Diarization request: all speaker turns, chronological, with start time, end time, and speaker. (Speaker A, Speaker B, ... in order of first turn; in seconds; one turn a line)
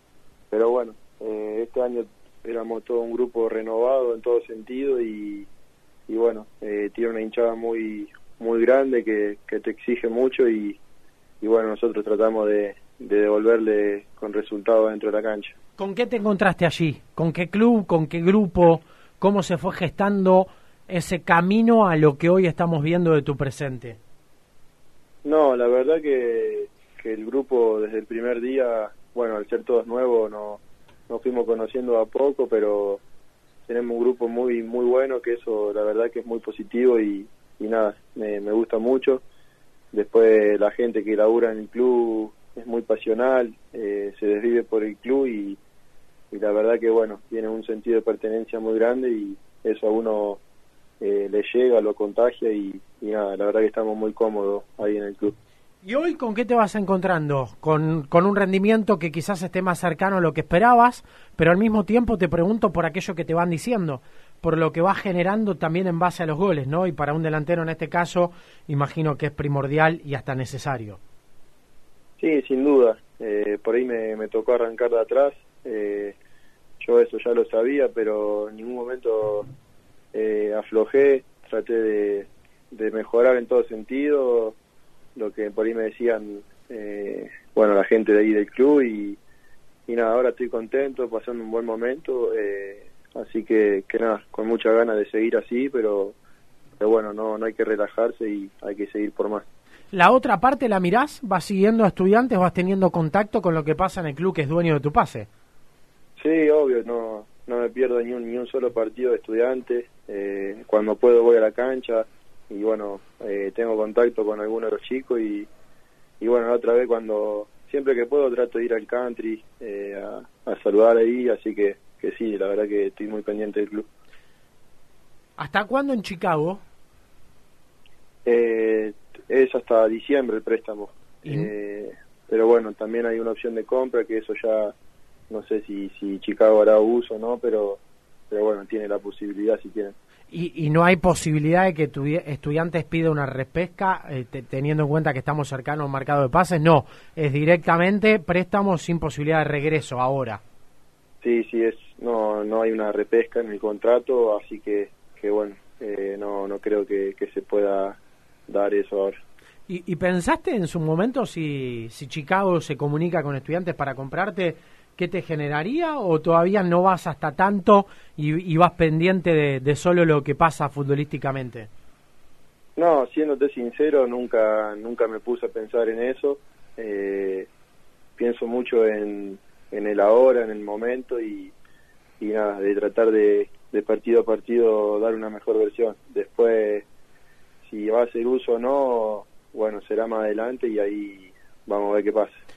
Speaker A: 0.5-5.5
Speaker A: 6.1-10.8
Speaker A: 11.4-15.5
Speaker B: 15.8-24.0
Speaker A: 25.2-33.0
Speaker A: 33.7-39.2
Speaker A: 39.9-45.6
Speaker A: 46.3-50.4
Speaker A: 51.0-55.3
Speaker B: 55.8-71.0
Speaker A: 72.2-76.2
Speaker A: 76.8-79.5
Speaker A: 80.1-84.5
Speaker A: 85.2-89.2
Speaker A: 89.9-96.2
Speaker A: 96.8-99.5
Speaker B: 99.9-105.3
Speaker A: 106.2-115.5
Speaker A: 116.2-123.8
Speaker B: 125.4-126.6
Speaker A: 128.2-134.7
Speaker B: 131.2-131.5
Speaker A: 135.3-139.9
Speaker B: 140.3-150.4
Speaker A: 151.2-159.2
Speaker B: 159.7-171.7
Speaker A: 172.8-177.5
Speaker A: 178.2-181.5
Speaker A: 182.2-186.8
Speaker A: 187.6-192.4